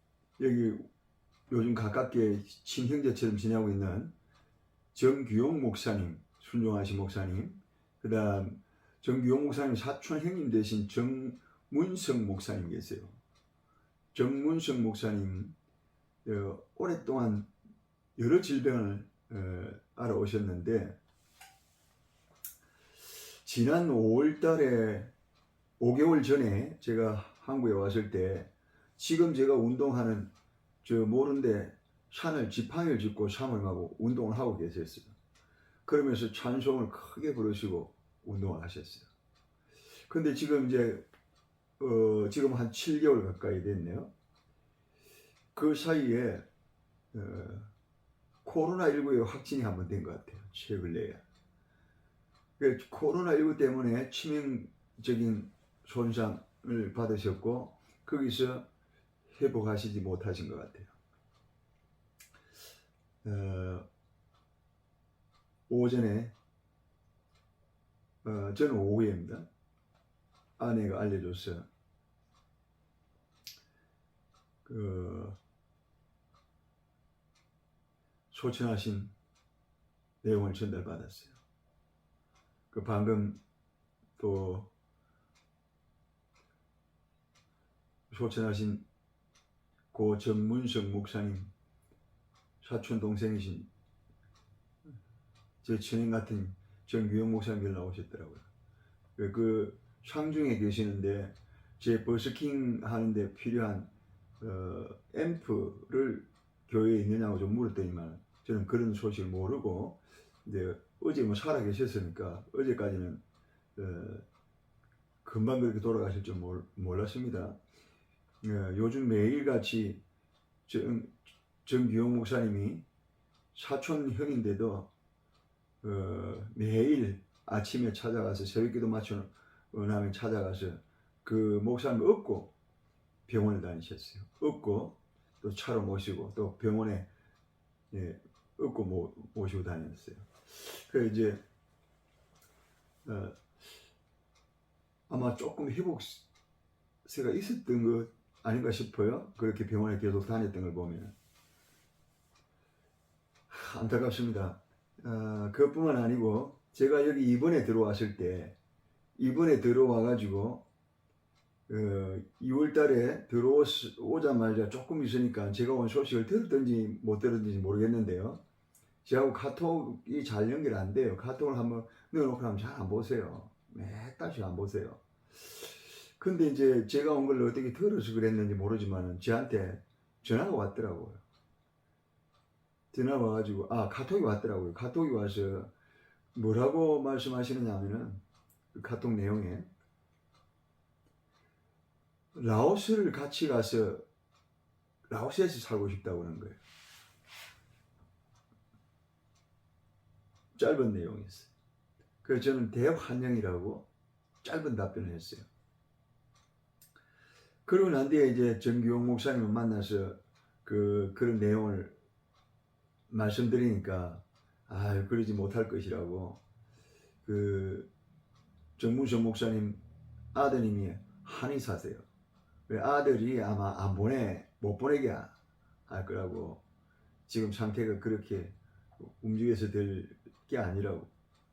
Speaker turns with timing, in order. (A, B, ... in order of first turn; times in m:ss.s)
0:00.4-0:00.8 A
0:01.5-0:04.1 A
0:04.9-0:13.2 A
0:14.1-0:15.5 A
0:16.2-0:17.5 A
0:18.2-0:20.9 A
0:23.4-0:25.1 A
0:25.8-0:30.3 A
0:30.8-0:35.1 A
0:35.8-0:39.1 A
0:40.1-0:41.0 A
0:41.8-0:44.1 A
0:45.5-0:46.4 A
0:47.1-0:47.7 A
0:48.4-0:51.2 A
0:52.6-0:58.6 A
0:59.3-1:00.9 A
1:03.2-1:03.8 A
1:05.7-1:06.3 A
1:08.2-1:09.5 A
1:10.6-1:11.6 A
1:14.6-1:15.4 A
1:18.3-1:19.1 A
1:20.2-1:21.4 A
1:22.7-1:23.4 A
1:24.2-1:24.7 A
1:28.1-1:28.8 A
1:29.9-1:31.5 A
1:32.6-1:33.7 A
1:35.6-1:38.4 A
1:39.2-1:43.9 A
1:44.4-1:53.2 A
1:53.8-1:54.2 A
1:55.2-1:57.6 A
1:58.4-2:00.0 A
2:00.7-2:02.8 A
2:03.5-2:04.9 A
2:05.8-2:12.5 A
2:13.3-2:17.1 A
2:17.9-2:21.4 A
2:23.0-2:23.4 A
2:25.1-2:26.2 A
2:27.0-2:31.1 A
2:33.5-2:38.5 A
2:39.2-2:40.6 A
2:41.7-2:48.4 A
2:49.0-3:01.2 A
3:02.9-3:05.7 A
3:06.3-3:08.2 A
3:08.7-3:09.7 A
3:12.3-3:14.0 A
3:15.1-3:16.6 A
3:20.5-3:21.5 A
3:22.2-3:23.8 A
3:24.4-3:25.4 A
3:27.6-3:31.9 A
3:33.1-3:36.4 A
3:37.2-3:37.9 A
3:38.8-3:39.8 A
3:40.3-3:42.0 A
3:42.7-3:45.3 A
3:45.9-3:46.6 A
3:47.3-3:51.1 A